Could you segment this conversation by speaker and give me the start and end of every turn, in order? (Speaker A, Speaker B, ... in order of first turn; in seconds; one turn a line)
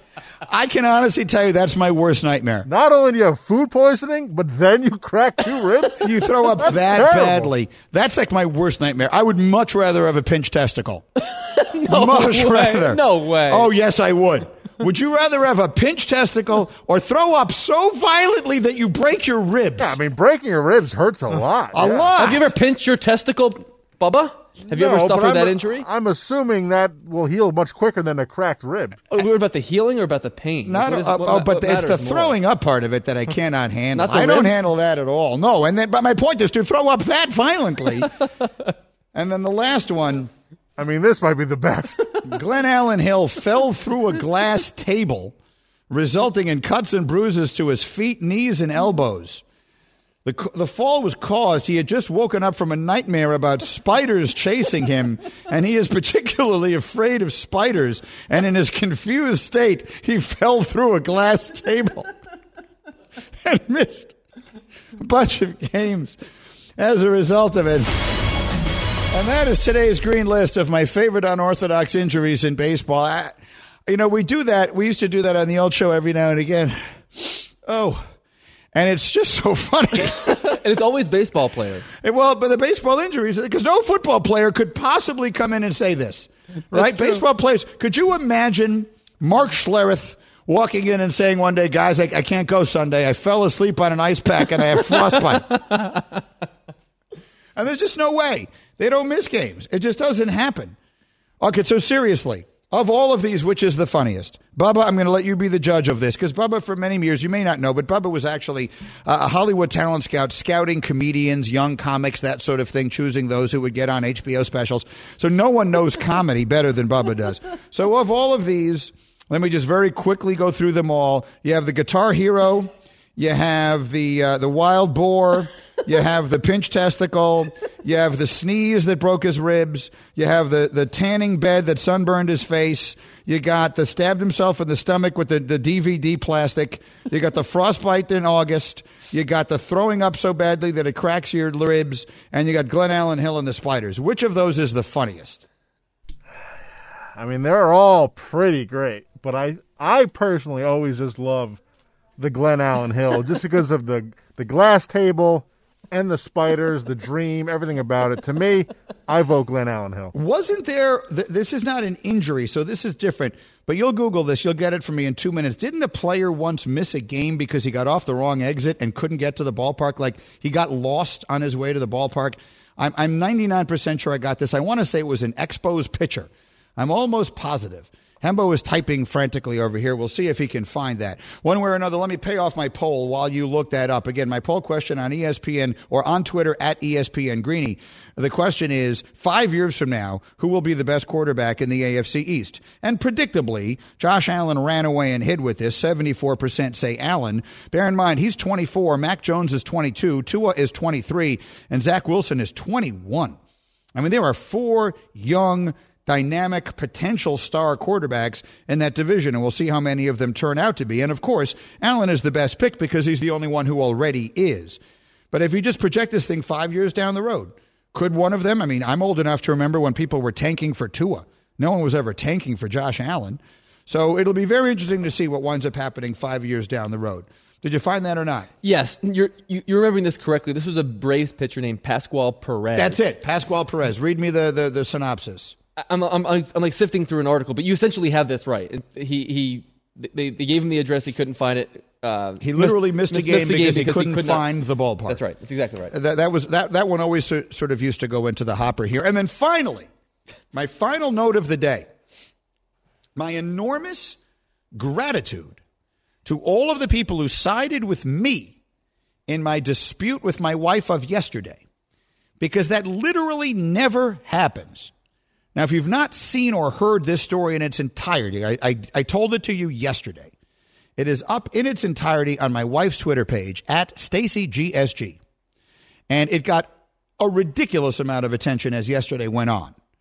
Speaker A: 0.5-2.7
Speaker B: 2.7-6.1
Speaker A: 6.0-11.1
Speaker B: 6.7-7.5
Speaker C: 11.3-13.7
Speaker A: 11.9-20.0
Speaker B: 19.8-22.1
Speaker A: 21.7-22.5
Speaker C: 22.2-25.9
Speaker B: 24.7-29.0
Speaker C: 29.1-32.4
Speaker A: 30.6-38.1
Speaker C: 33.9-34.5
Speaker A: 39.1-40.3
Speaker B: 40.8-42.3
Speaker A: 42.3-45.4
Speaker A: 45.9-49.4
Speaker A: 50.2-62.1
Speaker A: 63.4-64.1
Speaker A: 65.0-66.2
Speaker A: 66.8-68.0
Speaker A: 69.1-78.1
Speaker A: 78.7-80.5
Speaker C: 80.3-81.9
Speaker A: 82.0-95.7
Speaker C: 86.8-87.1
Speaker A: 97.6-100.8
Speaker A: 101.4-145.4
Speaker B: 147.2-151.6
Speaker B: 152.2-160.1
Speaker A: 160.1-203.4
Speaker A: 203.9-214.8
Speaker A: 215.3-228.5
Speaker C: 228.6-233.1
Speaker A: 232.8-235.6
Speaker C: 235.8-244.4
Speaker A: 242.4-245.2
Speaker C: 245.1-245.9
Speaker A: 245.9-249.9
Speaker A: 250.5-251.9
Speaker A: 253.2-254.2
Speaker A: 254.7-255.6
Speaker A: 256.2-258.6
Speaker A: 259.3-261.6
Speaker A: 262.4-264.9
Speaker A: 265.6-270.3
Speaker A: 271.0-275.2
Speaker A: 276.1-279.8